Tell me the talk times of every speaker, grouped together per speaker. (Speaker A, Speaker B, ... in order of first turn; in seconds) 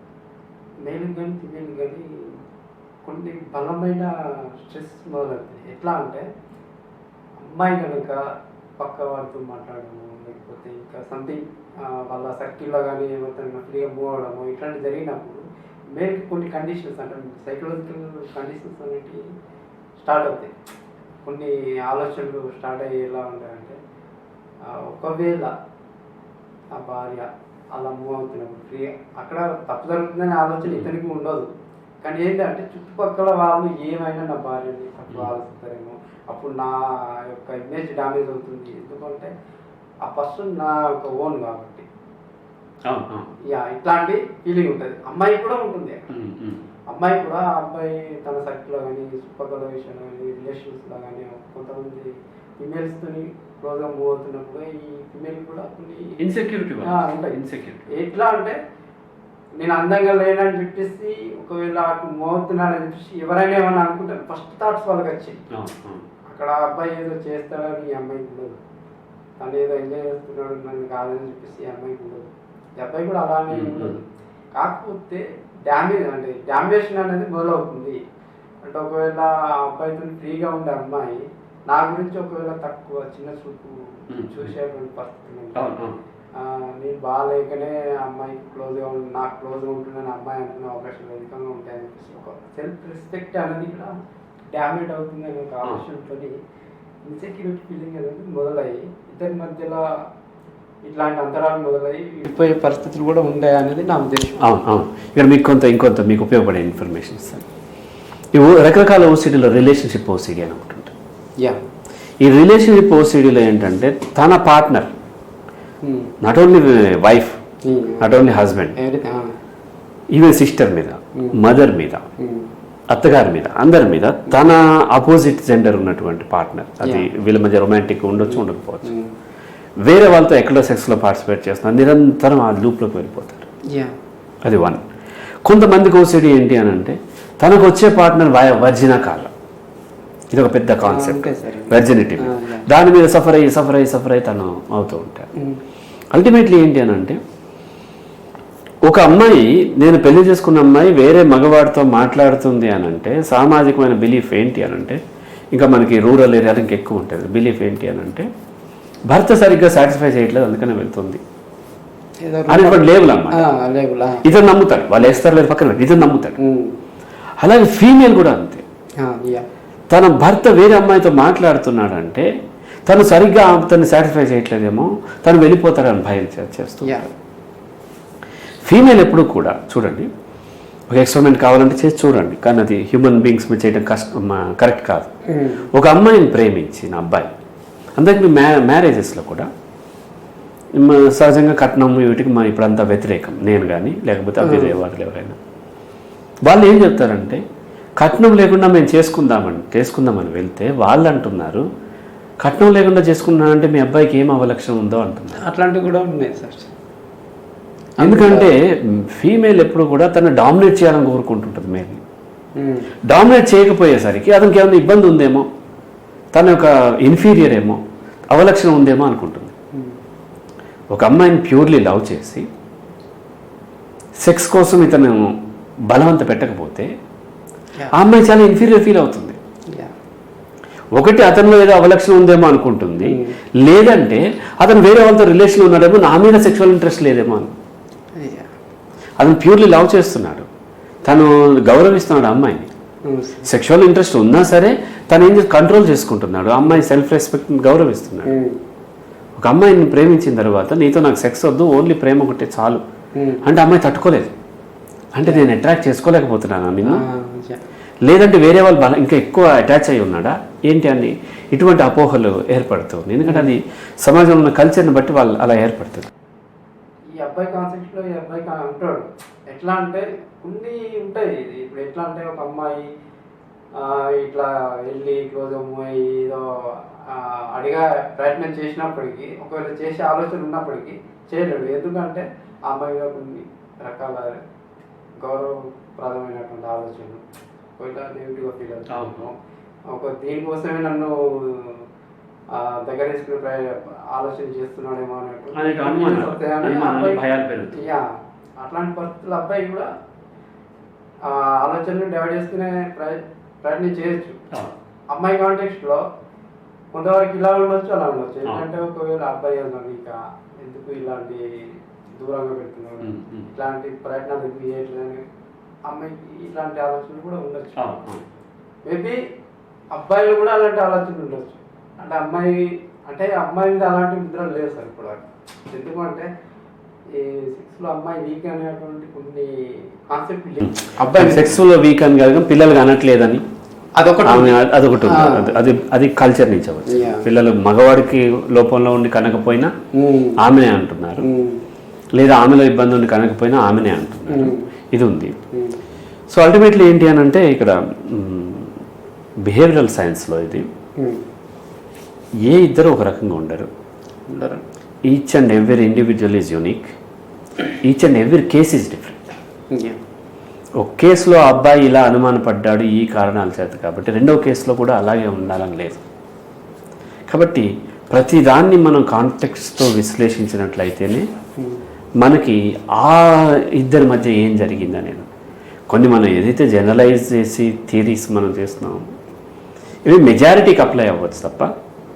Speaker A: 0.8-2.3, 3.0-4.1, 4.6-6.2, 7.4-8.2, 8.8-15.4, 15.9-19.2, 20.0-20.5, 21.2-23.8, 24.7-25.5, 26.7-31.5, 32.0-36.8, 37.3-39.3, 40.0-41.9, 43.5-46.1, 46.9-52.1, 52.6-56.1, 56.8-57.4, 57.9-58.5, 59.6-65.4, 66.3-68.6, 69.4-74.0, 74.5-78.0, 78.6-85.8, 86.4-93.9, 94.5-96.3, 97.0-99.9, 100.8-104.4, 115.8-116.1, 117.7-119.3, 122.2-122.5, 126.8-127.1, 128.3-129.1, 140.8-142.7, 162.2-165.2, 166.4-166.7, 169.0-169.4, 176.8-177.1, 185.3-185.7, 194.4-194.8, 205.4-206.7, 208.0-208.5, 212.6-212.9, 233.0-233.3, 238.2-238.5, 243.1-243.5, 248.2-248.6, 253.2-253.4, 256.9-257.6, 263.2-263.5, 267.1-272.8, 273.8-276.4, 277.1-284.4, 285.2-287.2, 287.8-289.3, 289.9-291.8, 292.5-298.0, 298.6-299.9, 301.2-304.4, 305.1-306.0, 306.9-311.4, 312.2-315.2, 315.9-317.8, 318.9-319.2, 319.9-326.3, 327.1-331.6, 333.9-335.7, 336.9-337.2, 339.9-340.4, 341.2-341.6, 344.3-344.7, 345.5-345.8, 354.3-354.6, 359.7-360.0
Speaker B: 42.9-43.2, 46.1-46.6, 56.2-57.9, 65.5-66.0, 73.5-73.9, 84.1-84.5, 85.5-86.0, 104.4-107.4, 108.3-110.9, 112.2-114.9, 116.2-117.4, 118.0-118.7, 120.1-122.0, 122.9-128.9, 129.8-133.5, 134.4-134.8, 135.4-139.3, 140.3-145.3, 146.1-147.2, 148.8-155.0, 155.5-158.3, 159.1-161.2, 162.5-163.4, 164.2-166.4, 167.4-168.6, 169.9-172.3, 172.8-177.1, 178.7-180.1, 180.9-185.1, 185.7-187.3, 188.0-189.5, 190.8-195.3, 196.4-197.4, 198.0-201.6, 202.4-205.4, 208.0-212.0, 213.1-215.4, 216.3-217.8, 218.3-219.5, 220.9-222.5, 224.2-225.3, 225.9-226.9, 227.9-229.4, 230.9-237.5, 239.2-240.5, 241.0-242.7, 243.4-248.3, 249.4-252.8, 253.4-254.3, 255.1-257.0, 258.0-266.1, 288.9-289.3, 295.5-297.7, 313.0-313.5, 317.8-318.2, 330.6-333.4, 334.2-339.7, 340.4-341.2, 342.1-345.3, 346.3-348.8, 349.4-350.7, 352.5-353.7, 355.1-356.9, 357.8-359.4, 360.8-366.0, 367.3-371.2, 372.2-375.3, 375.9-379.1, 380.1-381.7